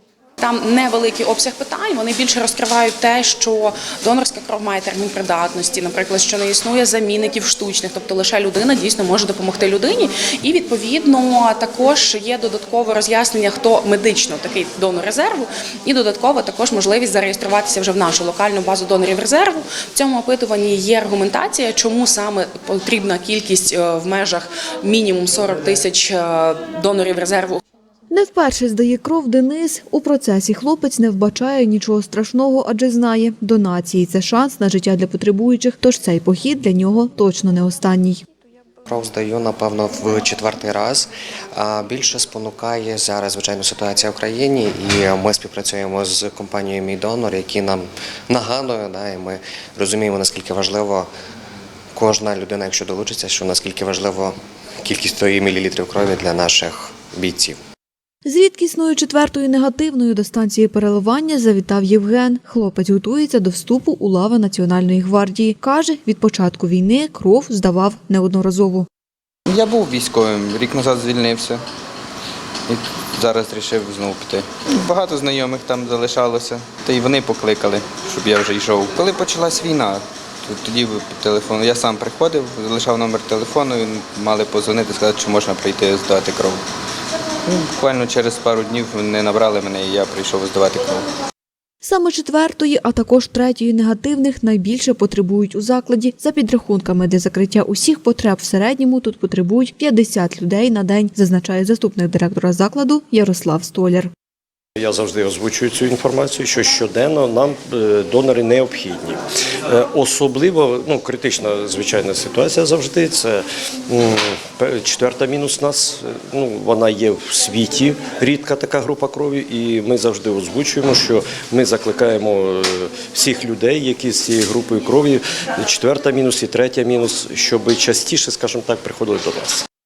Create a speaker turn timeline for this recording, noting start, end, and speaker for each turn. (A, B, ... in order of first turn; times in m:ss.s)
0:00.4-0:27.6 A
0:28.1-0:38.2 B
0:38.8-0:51.1 C
0:51.9-0:57.6 C
0:58.2-1:08.9 B
1:09.5-1:11.6 D
1:12.7-1:26.6 D
1:27.4-1:31.1 D
1:31.8-1:44.1 B
1:44.8-2:09.6 E